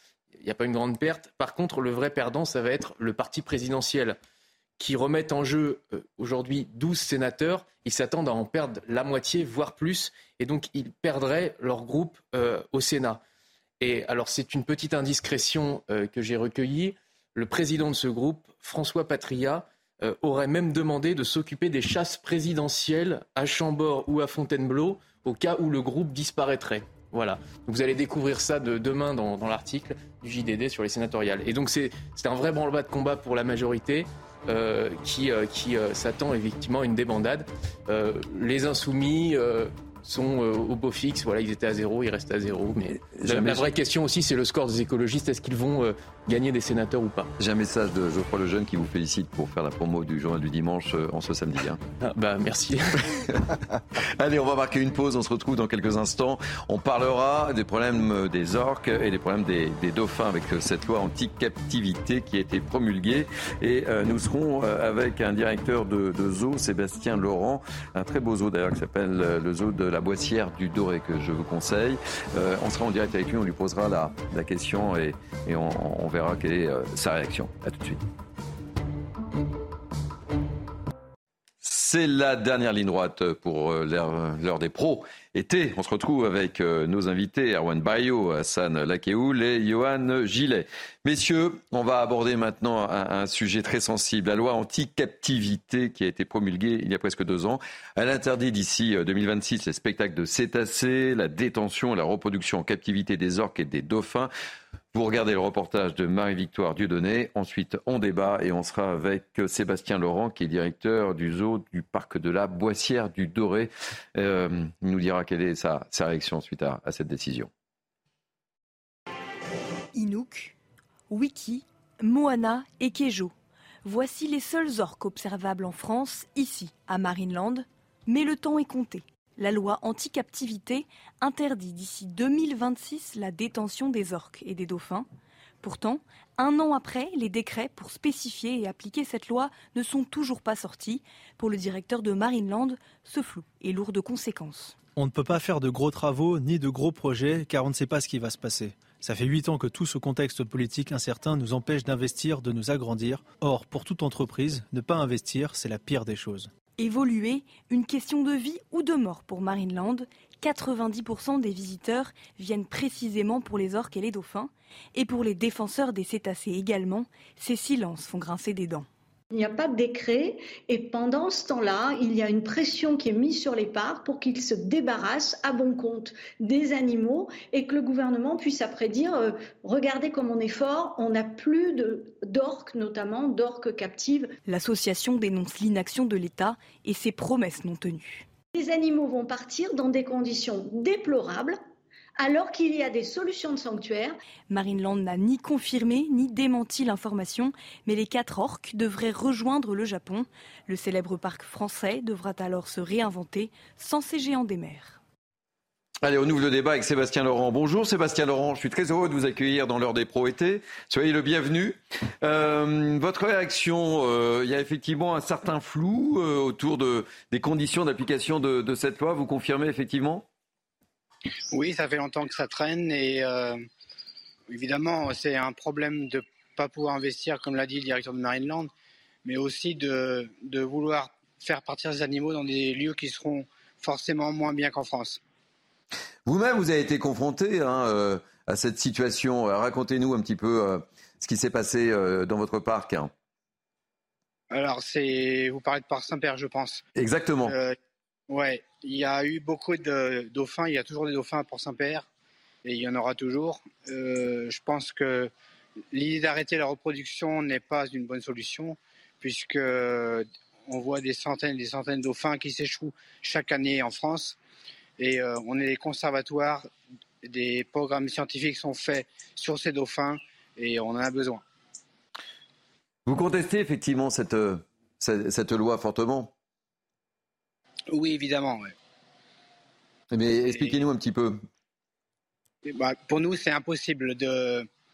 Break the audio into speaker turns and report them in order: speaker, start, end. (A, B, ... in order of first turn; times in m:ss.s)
0:00.4-0:04.2 A
0:04.8-0:13.2 A
0:13.8-0:47.3 A
0:42.9-0:43.6 B
0:47.4-0:51.8 B
0:52.0-0:53.0 A
0:54.2-1:18.0 B
1:21.6-1:44.3 B
1:44.9-1:57.5 B
1:59.9-2:00.5 C
2:01.1-2:15.1 C
2:15.6-2:24.7 C
2:25.0-2:36.5 D
2:36.8-2:48.9 C
2:49.3-3:04.4 E
3:04.4-3:08.3 C
3:08.5-3:11.6 E
3:12.2-3:14.2 E
3:14.5-3:25.0 C
3:26.0-3:40.2 B
3:41.5-3:43.6 F
3:44.5-3:48.7 F
3:49.2-3:55.2 F
3:56.2-4:03.1 B
4:04.5-4:06.8 F
4:07.0-4:07.5 B
4:07.4-4:07.8 F
4:08.3-4:12.0 F
4:12.6-4:15.3 F
4:15.9-4:24.4 F
4:25.0-4:26.7 F
4:27.2-4:31.4 F
4:33.0-4:36.3 B
4:37.9-4:38.7 F
4:40.1-4:41.4 B
4:42.6-4:44.7 F